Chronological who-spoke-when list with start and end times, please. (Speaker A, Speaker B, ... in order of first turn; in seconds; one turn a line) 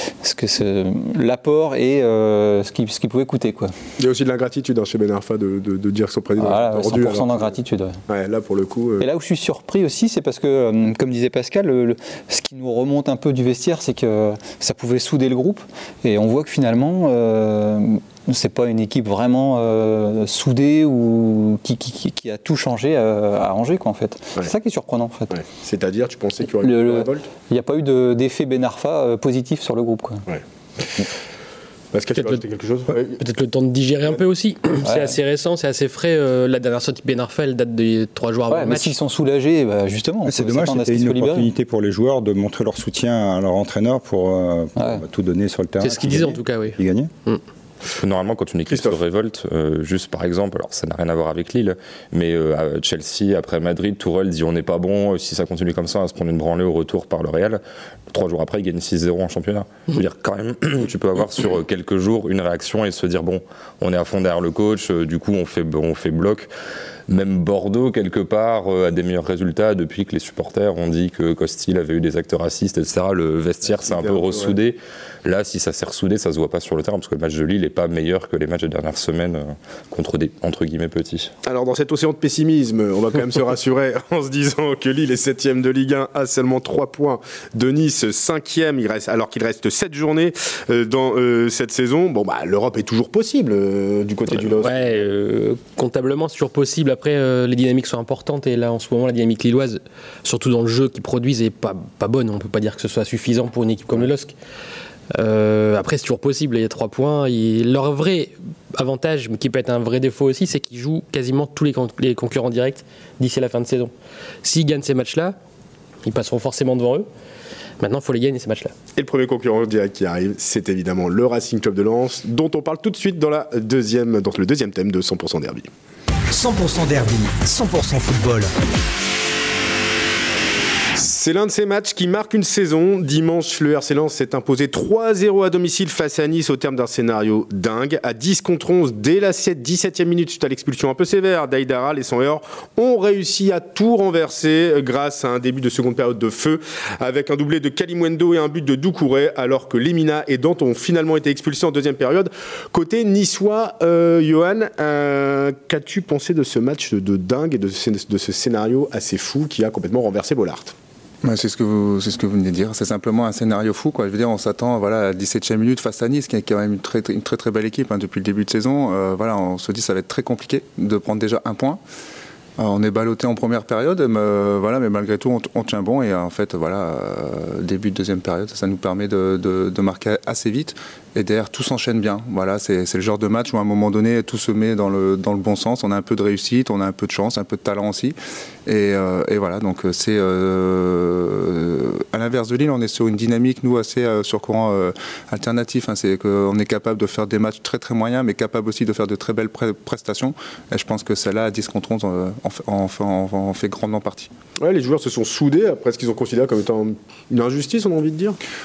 Speaker A: 0.2-3.7
Speaker B: 4.0-7.5
Speaker A: 6.4-8.0
Speaker B: 8.1-9.1
Speaker A: 9.0-25.4
Speaker B: 25.3-27.3
Speaker A: 26.6-30.2
Speaker B: 30.3-31.1
Speaker B: 31.9-33.2
Speaker C: 33.2-39.0
Speaker A: 34.9-35.1
Speaker A: 38.5-41.5
Speaker D: 40.3-47.1
Speaker A: 44.8-45.0
Speaker C: 45.8-47.4
Speaker E: 48.0-66.5
Speaker B: 48.7-49.0
Speaker E: 67.1-81.3
Speaker B: 73.9-74.5
Speaker B: 81.5-94.9
Speaker C: 94.5-104.3
Speaker C: 105.2-113.9
Speaker C: 114.4-115.4
Speaker C: 116.0-117.1
Speaker C: 117.8-118.7
Speaker B: 119.0-125.7
Speaker F: 126.3-128.7
Speaker B: 131.0-160.7
Speaker G: 161.2-171.8
Speaker G: 172.6-204.3
Speaker B: 204.6-208.4